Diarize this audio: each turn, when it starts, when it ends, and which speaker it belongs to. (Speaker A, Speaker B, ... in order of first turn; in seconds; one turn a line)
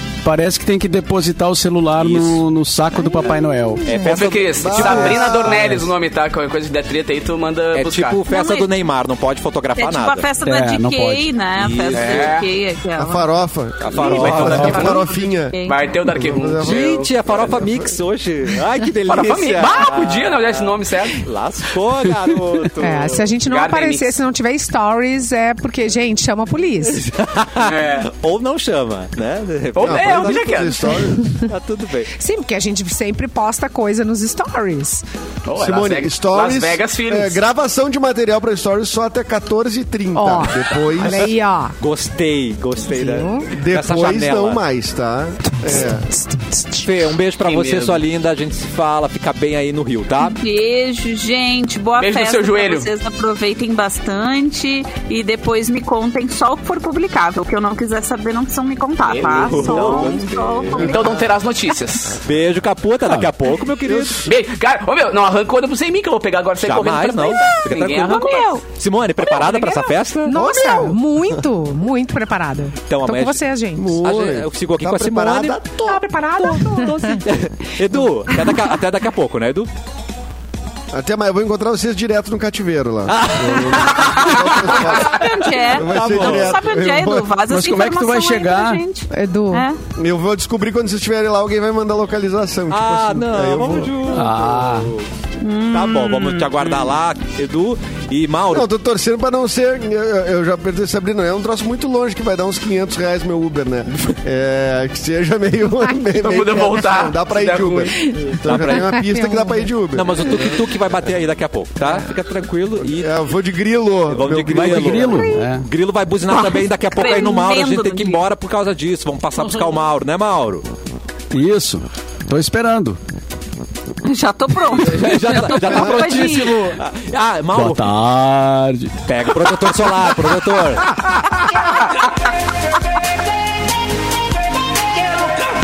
Speaker A: 0.2-3.9
Speaker B: 3.8-5.4
Speaker C: 3.9-4.1
Speaker D: 4.0-8.2
Speaker E: 4.6-5.8
Speaker B: 7.7-10.3
Speaker F: 8.2-8.7
Speaker F: 9.8-13.3
Speaker A: 10.4-11.3
Speaker B: 11.6-12.3
Speaker D: 11.9-12.5
Speaker E: 13.0-15.6
Speaker B: 13.8-15.1
Speaker D: 14.0-15.1
Speaker A: 14.2-14.8
Speaker F: 15.5-16.0
Speaker D: 15.7-17.1
Speaker E: 16.1-17.9
Speaker B: 16.6-23.3
Speaker D: 19.1-21.2
Speaker C: 22.8-27.1
Speaker D: 23.4-24.2
Speaker B: 26.9-30.8
Speaker D: 27.6-28.1
Speaker D: 29.8-31.0
Speaker E: 29.8-31.3
Speaker C: 31.0-31.4
Speaker B: 31.4-32.1
Speaker C: 32.2-35.0
Speaker D: 35.5-37.4
Speaker E: 35.6-41.3
Speaker C: 40.1-41.8
Speaker B: 41.2-44.6
Speaker C: 42.9-43.5
Speaker E: 43.5-46.1
Speaker C: 45.7-46.8
Speaker B: 46.8-50.4
Speaker D: 47.5-48.0
Speaker F: 50.2-61.2
Speaker D: 52.0-52.9
Speaker D: 59.0-62.2
Speaker B: 59.2-61.0
Speaker B: 62.2-64.3
Speaker E: 63.9-64.2
Speaker D: 64.2-68.6
Speaker B: 66.6-70.4
Speaker F: 68.1-68.7
Speaker D: 69.2-69.8
Speaker C: 70.3-74.0
Speaker E: 70.3-71.3
Speaker B: 72.9-73.4
Speaker E: 73.8-76.0
Speaker B: 74.0-75.8
Speaker C: 75.9-77.3
Speaker B: 76.4-79.7
Speaker C: 78.3-78.7
Speaker E: 80.9-87.3
Speaker B: 83.2-84.1
Speaker F: 84.7-89.8
Speaker B: 85.8-86.5
Speaker A: 87.5-88.8
Speaker C: 89.1-89.7
Speaker E: 90.0-94.0
Speaker B: 92.7-95.1
Speaker A: 94.1-94.9
Speaker F: 95.4-96.6
Speaker B: 95.7-98.7
Speaker E: 98.5-110.3
Speaker D: 106.2-108.1
Speaker C: 108.1-109.7
Speaker B: 108.2-108.9
Speaker B: 109.9-113.1
Speaker E: 112.8-115.1
Speaker B: 114.1-120.6
Speaker A: 114.5-115.7
Speaker C: 115.1-115.5
Speaker F: 116.3-118.2
Speaker A: 121.3-123.0
Speaker F: 124.0-126.7
Speaker A: 124.9-126.8
Speaker B: 124.9-127.9
Speaker A: 127.5-129.0
Speaker B: 129.1-131.0